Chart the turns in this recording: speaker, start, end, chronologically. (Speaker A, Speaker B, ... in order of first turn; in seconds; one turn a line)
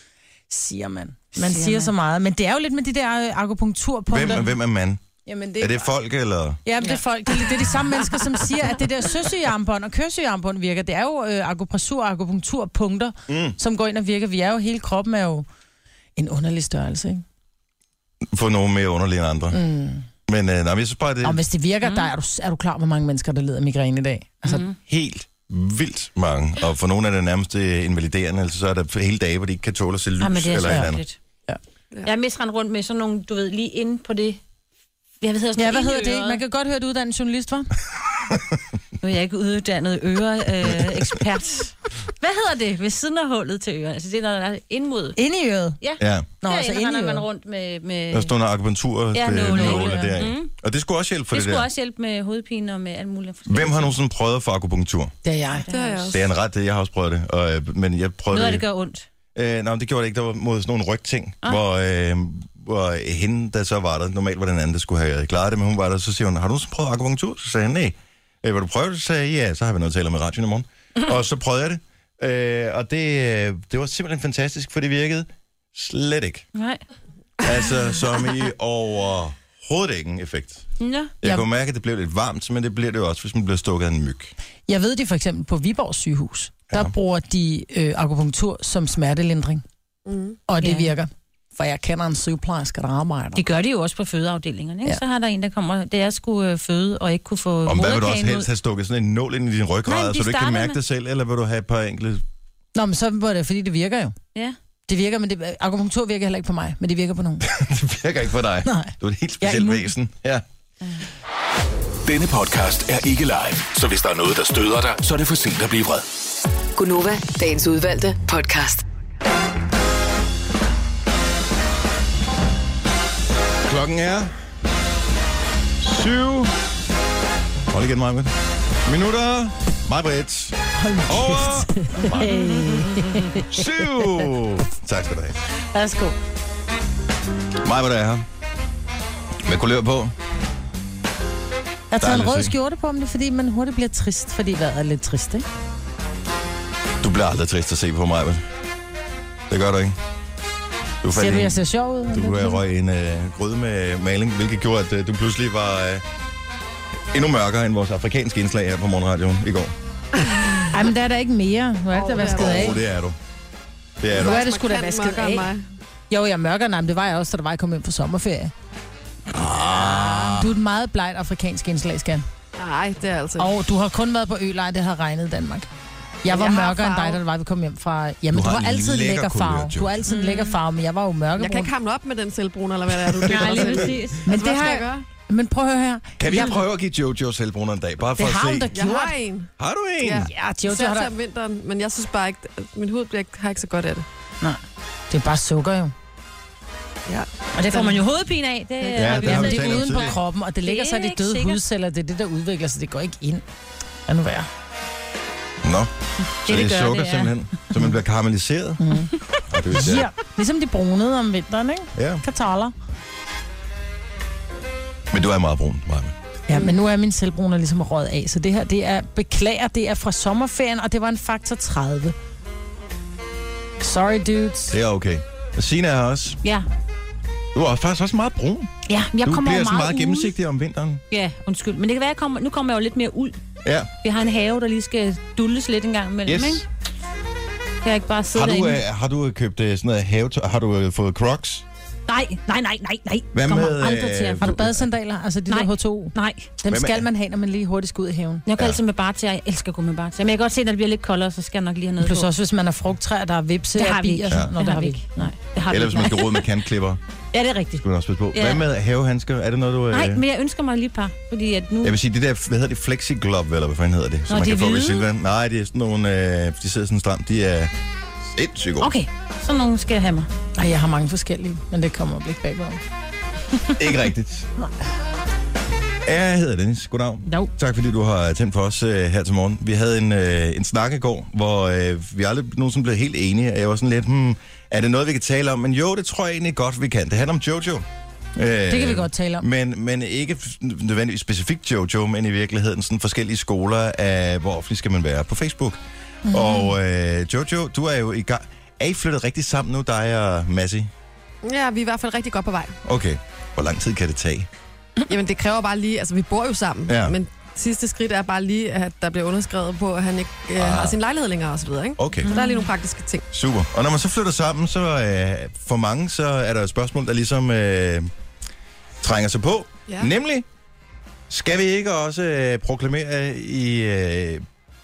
Speaker A: 0.5-4.5
Speaker B: 1.4-1.9
Speaker C: 4.1-5.0
Speaker A: 5.3-5.9
Speaker C: 5.6-6.6
Speaker A: 6.7-15.5
Speaker C: 13.3-13.6
Speaker A: 16.2-17.2
Speaker C: 18.3-19.6
Speaker A: 19.5-20.1
Speaker C: 20.3-21.4
Speaker A: 21.2-24.6
Speaker B: 21.8-22.1
Speaker B: 24.5-24.8
Speaker C: 24.9-31.0
Speaker B: 30.2-31.2
Speaker A: 30.6-30.9
Speaker B: 32.0-34.4
Speaker B: 35.2-36.4
Speaker A: 35.6-37.7
Speaker B: 39.0-45.2
Speaker C: 40.7-41.1
Speaker A: 45.2-45.8
Speaker B: 45.8-48.3
Speaker C: 46.0-46.3
Speaker A: 46.4-47.2
Speaker C: 48.1-51.7
Speaker B: 49.1-50.5
Speaker A: 49.7-50.1
Speaker B: 51.3-54.0
Speaker C: 53.5-55.1
Speaker A: 55.2-55.7
Speaker B: 55.6-56.1
Speaker D: 55.7-56.2
Speaker C: 56.1-58.6
Speaker B: 58.3-59.1
Speaker C: 59.4-76.5
Speaker B: 76.5-76.8
Speaker C: 77.4-80.7
Speaker B: 80.8-81.1
Speaker C: 81.2-84.3
Speaker A: 84.7-89.6
Speaker D: 90.1-90.4
Speaker A: 90.5-93.4
Speaker B: 90.6-90.9
Speaker B: 93.4-98.5
Speaker C: 97.7-102.2
Speaker B: 99.9-100.8
Speaker A: 102.8-104.2
Speaker A: 104.9-107.5
Speaker C: 107.4-110.4
Speaker A: 108.7-109.9
Speaker E: 112.0-116.0
Speaker F: 116.8-118.8
Speaker C: 123.7-124.3
Speaker C: 125.8-126.5
Speaker C: 127.7-128.3
Speaker C: 128.8-132.6
Speaker A: 130.8-134.3
Speaker B: 132.2-133.3
Speaker C: 133.4-135.4
Speaker A: 135.7-136.2
Speaker C: 137.6-138.2
Speaker C: 139.4-140.1
Speaker A: 141.9-145.4
Speaker C: 142.0-142.6
Speaker C: 147.0-148.4
Speaker C: 149.5-150.0
Speaker C: 151.0-156.0
Speaker A: 151.1-152.6
Speaker C: 157.1-159.7
Speaker D: 160.2-160.7
Speaker A: 160.7-162.8
Speaker D: 161.9-162.8
Speaker C: 162.2-163.2
Speaker C: 164.0-164.4
Speaker D: 164.1-165.6
Speaker A: 164.2-165.5
Speaker A: 166.1-168.5
Speaker C: 169.3-170.5
Speaker A: 170.0-172.3
Speaker D: 172.6-173.5
Speaker A: 173.4-175.7
Speaker A: 176.2-181.7
Speaker D: 176.3-177.2
Speaker C: 178.3-179.9
Speaker B: 180.1-180.6
Speaker D: 181.4-185.1
Speaker C: 183.1-183.8
Speaker B: 183.2-184.3
Speaker A: 184.2-186.6
Speaker C: 186.2-188.7
Speaker A: 188.2-189.2
Speaker D: 188.7-194.1
Speaker C: 189.6-190.3
Speaker A: 190.2-191.1
Speaker A: 195.1-195.9
Speaker D: 197.1-198.0
Speaker B: 197.6-201.6
Speaker D: 198.8-199.1
Speaker C: 198.9-200.2
Speaker A: 199.2-203.4
Speaker A: 204.1-204.5
Speaker C: 205.6-205.9
Speaker B: 206.4-207.3
Speaker C: 206.4-208.8
Speaker A: 208.8-209.1
Speaker C: 209.5-210.1
Speaker A: 209.7-212.7
Speaker C: 212.0-212.2
Speaker C: 215.1-216.1
Speaker A: 216.5-222.2
Speaker A: 223.8-224.8
Speaker C: 224.7-226.4
Speaker C: 227.5-231.0
Speaker B: 228.9-230.3
Speaker B: 231.1-233.4
Speaker C: 233.7-233.9
Speaker B: 234.0-236.7
Speaker C: 236.3-236.7
Speaker B: 237.8-238.8
Speaker C: 238.3-241.7
Speaker B: 242.1-244.5
Speaker C: 243.3-244.8
Speaker A: 244.4-248.4
Speaker B: 245.5-246.5
Speaker C: 246.7-247.1
Speaker B: 248.5-252.3
Speaker A: 252.0-255.3
Speaker B: 253.8-256.5
Speaker C: 255.7-257.0
Speaker B: 257.3-258.6
Speaker C: 257.8-260.2
Speaker B: 259.9-262.0
Speaker C: 261.8-267.7
Speaker B: 264.3-265.1
Speaker C: 268.3-268.9
Speaker B: 268.8-270.3
Speaker A: 270.6-272.8
Speaker C: 273.8-274.5
Speaker C: 276.1-287.9
Speaker C: 288.4-295.8
Speaker A: 288.7-289.5
Speaker A: 296.3-296.7
Speaker C: 296.3-300.9
Speaker D: 301.4-302.8
Speaker C: 302.9-304.5
Speaker D: 305.1-313.2
Speaker C: 306.9-307.2
Speaker C: 310.6-311.0
Speaker C: 312.0-312.3
Speaker B: 312.3-312.7
Speaker C: 313.3-318.1
Speaker C: 319.0-320.5
Speaker C: 321.3-324.4